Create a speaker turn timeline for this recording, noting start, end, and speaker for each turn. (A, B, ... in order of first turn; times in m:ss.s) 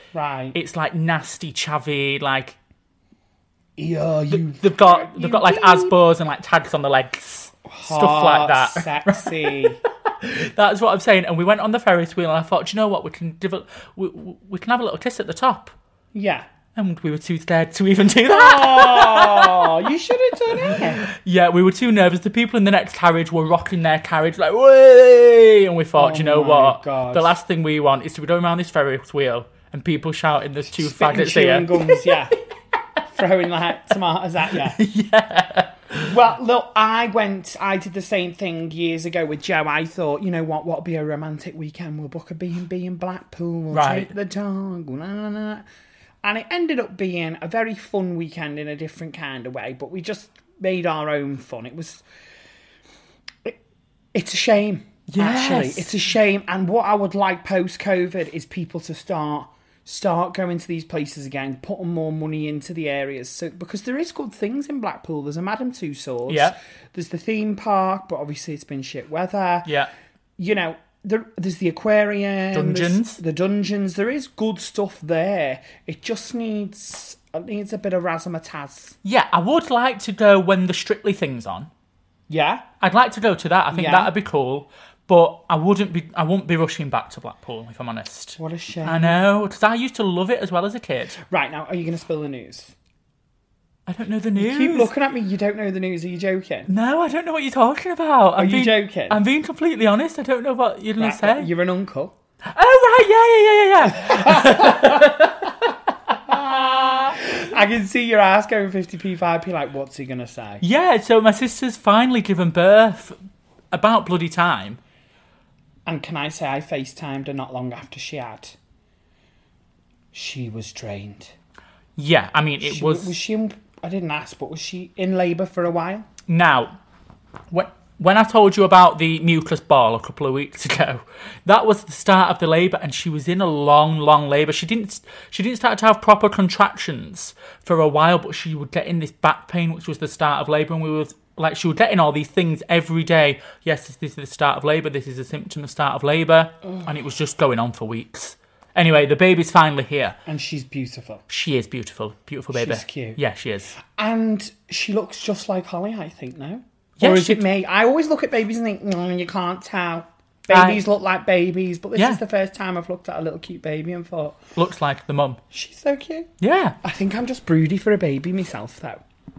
0:00.1-0:00.6 A
0:00.5-0:02.6 B
0:03.8-0:06.0 A
0:04.3-0:15.7 B
0:07.7-0:09.8 A
0:16.1-0:16.5 A
0:16.8-0:19.7 B
0:18.3-0:21.1 A
0:20.6-0:32.1 B
0:26.0-0:27.3 A
0:30.7-0:32.4 A
0:33.1-0:34.8 A
0:34.7-0:36.1 B
0:36.1-0:45.6 A
0:43.7-0:44.1 B
0:46.2-0:52.0 A
0:54.1-1:09.7 A
0:55.1-0:55.9 B
1:06.3-1:06.6 B
1:10.4-1:19.0 A
1:12.5-1:13.2 B
1:19.0-1:21.7 B
1:22.3-1:22.7 A
1:22.8-1:31.2 B
1:23.7-1:24.1 A
1:28.4-1:29.2 A
1:31.3-1:32.7 A
1:33.9-1:34.9 B
1:34.4-1:36.7 A
1:36.7-1:41.5 B
1:38.4-1:39.2 A
1:41.0-1:42.1 A
1:42.5-1:47.2 B
1:43.9-1:45.5 A
1:46.3-1:50.6 A
1:50.6-1:53.2 B
1:53.7-1:54.8 B
1:55.9-1:58.6 A
2:00.1-2:01.3 A
2:02.0-2:03.2 B
2:02.6-2:06.1 A
2:06.3-2:06.8 B
2:07.5-2:30.2 B
2:30.3-2:31.2 A
2:31.3-2:33.7 B
2:32.5-2:33.2 A
2:33.8-2:44.4 A
2:37.0-2:37.4 B
2:40.5-2:40.8 B
2:44.6-2:45.4 B
2:45.5-2:46.3 A
2:46.4-2:46.8 B
2:46.8-2:49.0 A